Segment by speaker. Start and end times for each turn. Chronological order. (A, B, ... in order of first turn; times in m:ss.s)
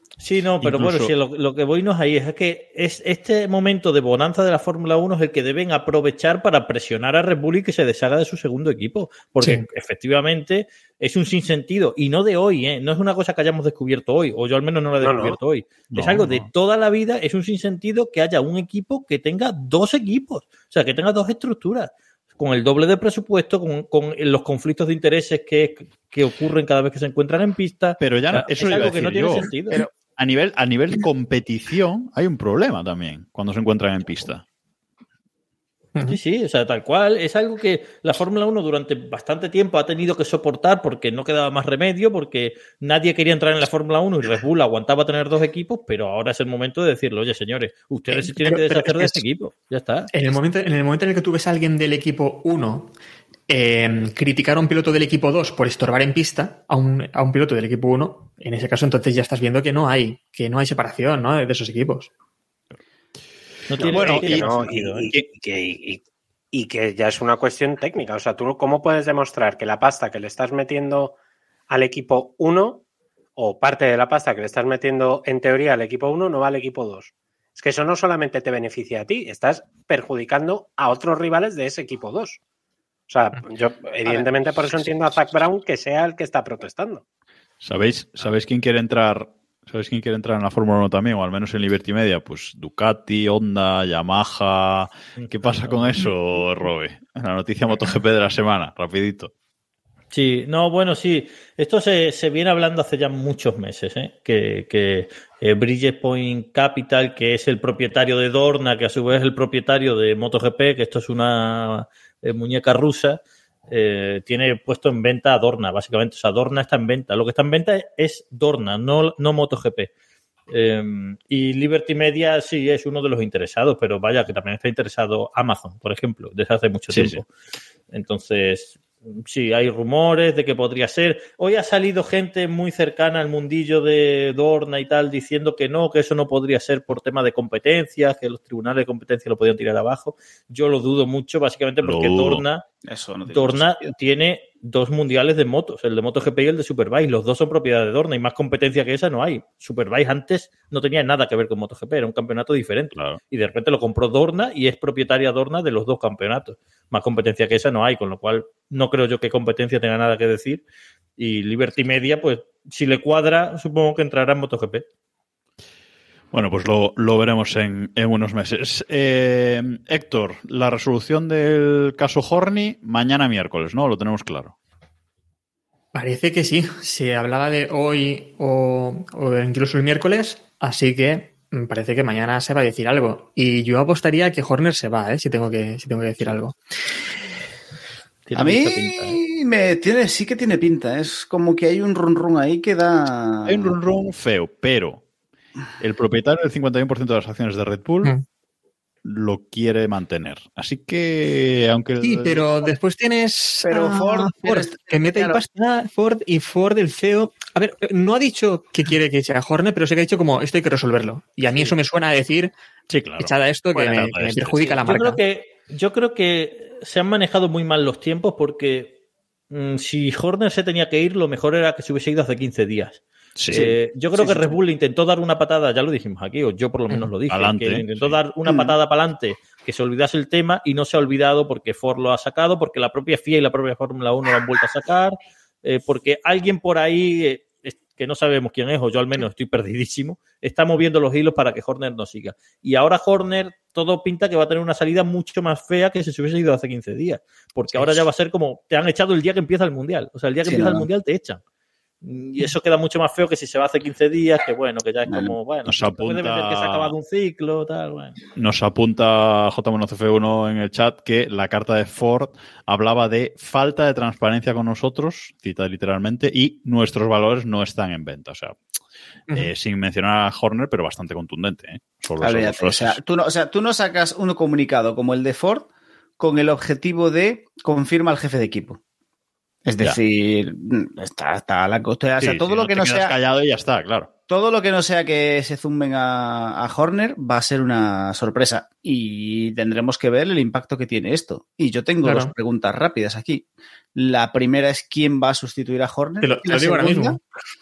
0:00.2-0:29.8 A
0:00.6-0:01.1 B
0:15.0-0:15.4 C
0:15.9-0:16.5 B
0:28.0-0:34.4 B
0:36.0-0:50.1 A
0:48.1-0:49.2 D
0:50.1-0:52.9 D
0:53.5-1:02.1 D
1:03.7-1:05.1 A
1:03.8-1:11.2 C
1:03.9-1:05.3 B
1:11.7-1:12.8 C
1:13.4-1:22.4 C
1:23.1-1:27.0 C
1:27.6-1:39.3 B
1:35.2-1:36.1 A
1:40.1-1:59.9 A
2:00.5-2:07.3 A
2:06.9-2:07.2 B
2:07.9-2:22.6 A
2:21.8-2:22.4 B
2:22.9-2:23.9 E
2:23.3-2:40.6 A
2:41.2-2:44.8 A
2:46.3-2:54.6 B
2:55.9-3:06.6 D
3:08.3-3:09.2 A
3:08.4-3:13.8 E
3:13.5-3:15.0 B
3:15.8-3:18.1 B
3:19.0-3:22.5 B
3:22.0-3:32.5 D
3:23.6-3:25.4 E
3:32.9-3:34.8 B
3:33.2-3:35.2 D
3:34.8-3:38.9 A
3:39.5-4:11.4 A
3:43.4-3:43.7 B
3:43.5-3:44.6 E
3:47.3-3:48.2 B
3:48.5-3:48.8 E
4:10.4-4:10.9 E
4:12.0-4:18.2 A
4:15.1-4:15.4 E
4:15.7-4:16.9 B
4:18.4-4:28.6 B
4:29.3-4:33.0 B
4:32.2-4:35.7 E
4:36.2-4:38.8 E
4:39.6-4:43.2 E
4:42.2-4:44.1 B
4:44.3-4:57.2 E
4:52.0-4:52.3 D
4:56.2-4:57.2 D